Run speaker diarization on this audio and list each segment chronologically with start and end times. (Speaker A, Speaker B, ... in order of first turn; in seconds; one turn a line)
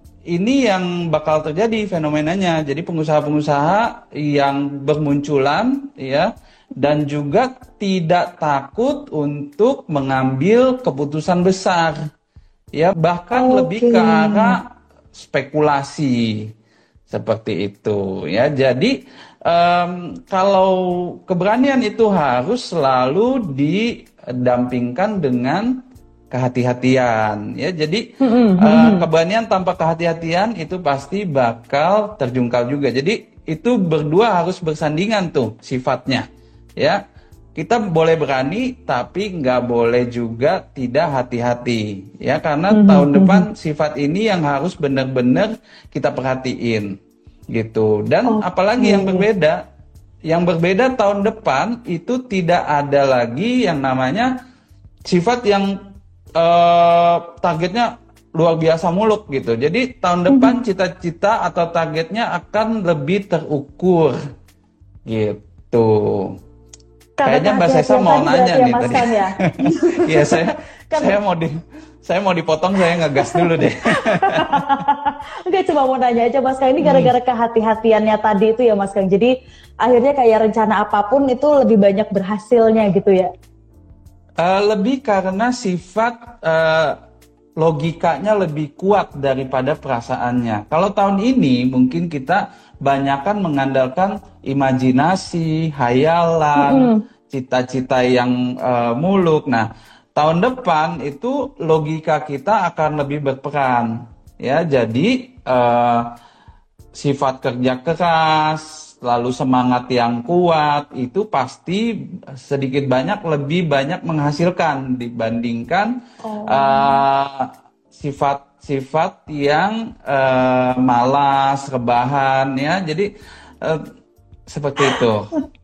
Speaker A: 0.3-12.0
Speaker A: 12.8-14.6
Speaker B: 13.3-14.6
Speaker A: 15.2-16.4
Speaker A: 17.1-18.9
Speaker A: 19.5-25.8
Speaker A: 26.3-28.0
Speaker B: 28.2-29.1
Speaker A: 28.6-36.2
Speaker A: 37.5-46.9
Speaker B: 42.7-43.5
Speaker A: 47.5-49.6
Speaker B: 48.2-49.2
Speaker A: 50.3-54.3
Speaker A: 55.0-55.7
Speaker A: 56.4-64.2
Speaker B: 60.3-60.6
Speaker A: 65.1-66.3
Speaker B: 67.2-71.2
Speaker A: 67.2-74.7
Speaker B: 73.0-79.3
Speaker A: 76.8-77.1
Speaker B: 79.8-83.3
Speaker A: 84.4-87.0
Speaker A: 87.6-103.9
Speaker B: 96.6-97.0
Speaker A: 104.4-106.1
Speaker A: 107.0-111.8
Speaker A: 112.4-115.9
Speaker B: 116.2-117.0
Speaker A: 116.5-123.1
Speaker A: 124.5-125.3